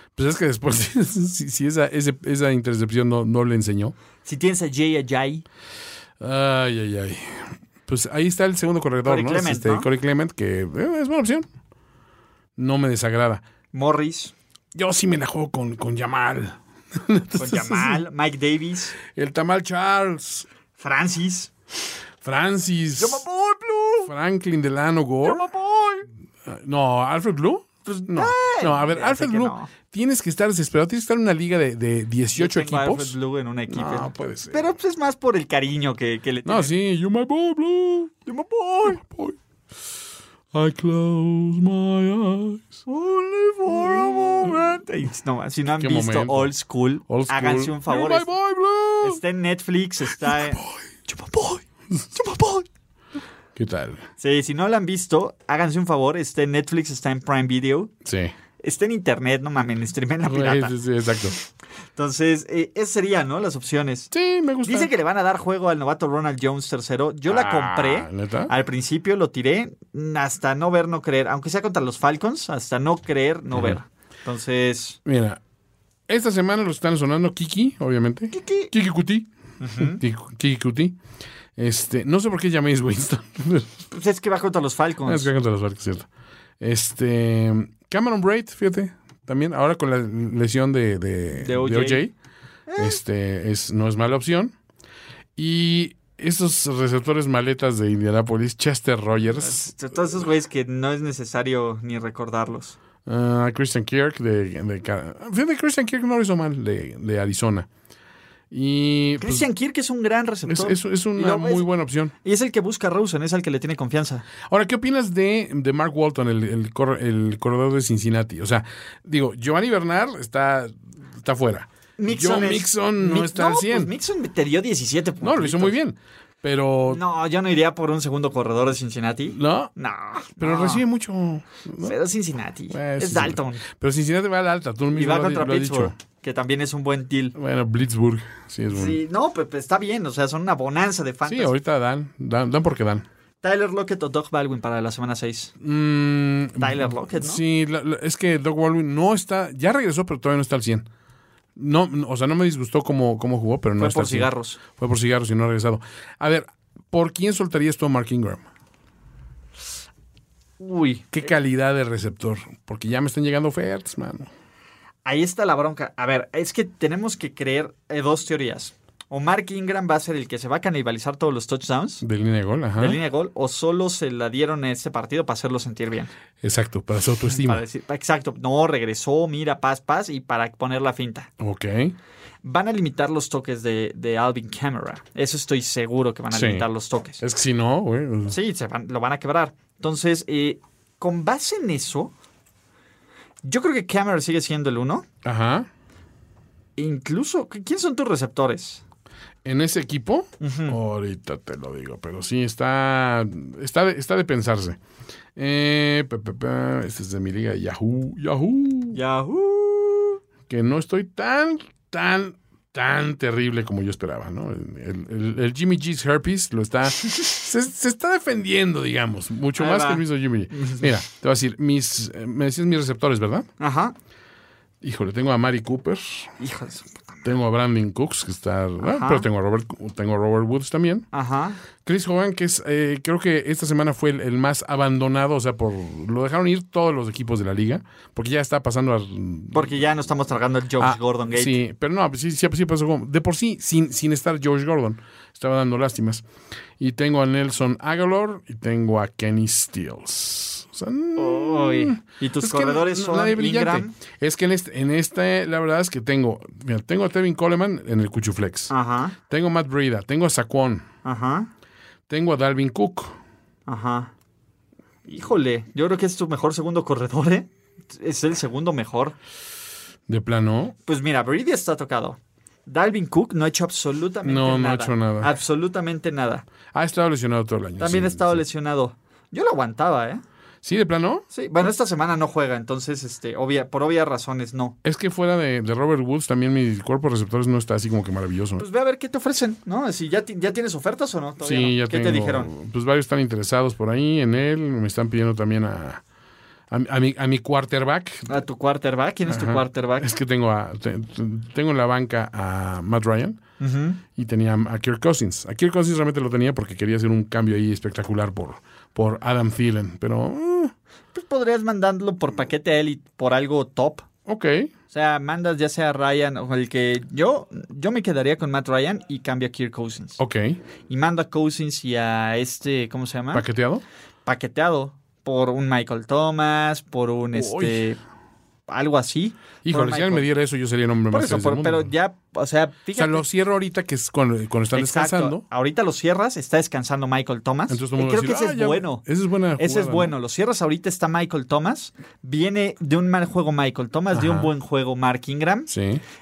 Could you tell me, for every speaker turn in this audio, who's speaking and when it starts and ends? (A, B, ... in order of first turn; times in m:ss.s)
0:00.2-0:03.9 A
0:04.2-0:05.4 B
0:06.2-0:11.5 A
0:09.0-0:09.9 B
0:12.6-0:13.4 A
0:13.7-0:14.3 B
0:14.7-0:18.0 A
0:17.4-0:18.9 B
0:19.1-0:20.5 A
0:20.8-0:21.5 B
0:22.2-0:23.2 A
0:23.0-0:24.1 B
0:24.0-0:25.5 A
0:25.2-0:26.1 B
0:26.4-0:33.2 A
0:27.8-0:29.7 B
0:32.3-0:36.7 B
0:33.7-0:34.7 A
0:36.4-0:38.1 A
0:38.2-0:39.0 B
0:38.9-0:39.4 A
0:40.5-0:42.8 A
0:42.8-0:48.3 B
0:43.7-0:44.8 A
0:45.8-0:46.5 A
0:47.1-0:49.2 A
0:49.0-0:51.6 B
0:50.2-0:50.8 A
0:52.1-0:52.6 B
0:53.6-0:54.0 A
0:54.2-0:57.9 B
0:58.0-0:58.3 A
0:58.6-1:00.8 B
1:00.2-1:01.4 A
1:02.0-1:04.1 B
1:04.1-1:04.9 A
1:04.6-1:15.0 B
1:07.3-1:08.5 A
1:15.0-1:15.4 A
1:16.1-1:21.0 A
1:18.3-1:18.7 B
1:19.6-1:20.0 B
1:21.6-1:23.7 A
1:23.9-1:25.3 B
1:25.0-1:26.1 A
1:26.6-1:32.1 A
1:31.4-1:32.0 B
1:32.7-1:33.0 B
1:32.8-1:34.5 A
1:35.4-1:39.7 A
1:39.4-1:42.8 B
1:43.0-1:47.7 A
1:48.5-1:49.5 A
1:49.2-1:51.7 B
1:50.4-1:52.1 A
1:52.2-1:54.2 B
1:54.4-2:03.9 A
2:02.0-2:05.8 B
2:05.2-2:07.0 A
2:06.9-2:10.8 B
2:09.3-2:09.7 A
2:10.4-2:11.9 A
2:11.8-2:13.6 B
2:12.7-2:15.9 A
2:14.9-2:17.3 B
2:17.3-2:19.0 A
2:18.7-2:21.5 B
2:21.2-2:23.0 A
2:23.4-2:25.5 B
2:25.6-2:30.9 A
2:26.6-2:27.4 B
2:31.6-2:38.4 A
2:33.8-2:34.6 B
2:40.6-2:41.2 B
2:41.1-2:44.3 A
2:45.0-2:52.0 B
2:52.0-2:53.0 A
2:52.8-2:56.1 B
2:56.4-2:57.6 A
2:57.3-3:01.3 B
3:01.4-3:02.0 A
3:02.4-3:07.2 B
3:06.3-3:06.6 A
3:07.2-3:08.4 A
3:08.3-3:12.1 B
3:13.4-3:15.0 B
3:15.2-3:15.7 A
3:16.8-3:18.8 B
3:19.4-3:24.8 A
3:20.4-3:20.8 B
3:25.4-3:29.0 A
3:28.9-3:30.2 B
3:30.5-3:43.5 A
3:39.5-3:40.8 B
3:43.6-3:43.9 B
3:44.8-3:46.3 A
3:46.4-3:47.2 B
3:47.2-3:51.1 A
3:48.8-3:49.3 B
3:51.1-3:51.6 B
3:51.8-3:59.8 A
3:59.5-4:01.6 B
4:00.8-4:06.2 A
4:06.8-4:18.7 A
4:11.2-4:14.0 B
4:18.7-4:19.2 B
4:19.3-4:20.8 A
4:21.0-4:21.5 B
4:22.1-4:23.2 A
4:23.7-4:24.1 B
4:25.0-4:29.2 B
4:30.1-4:30.8 A
4:30.8-4:36.4 B
4:34.2-4:35.3 A
4:36.7-4:38.4 A
4:37.8-4:40.2 B
4:40.6-4:41.2 A
4:41.3-4:44.8 B
4:44.8-4:48.6 A
4:48.6-4:52.5 B
4:51.4-4:56.0 A
4:56.7-4:58.3 A
4:58.3-5:00.1 B
4:59.3-5:03.4 A
5:03.6-5:04.0 B
5:04.1-5:10.7 A
5:11.1-5:14.0 B
5:14.2-5:14.7 A
5:14.9-5:20.2 B
5:20.2-5:20.6 A
5:20.9-5:23.4 B
5:23.3-5:23.8 A
5:24.2-5:28.0 B
5:27.3-5:27.8 A
5:28.7-5:30.3 B
5:29.6-5:31.9 A
5:31.1-5:33.2 B
5:33.0-5:35.4 A
5:34.7-5:39.0 B
5:37.7-5:40.1 A
5:39.6-5:45.7 B
5:44.1-5:44.5 A
5:45.7-5:46.0 A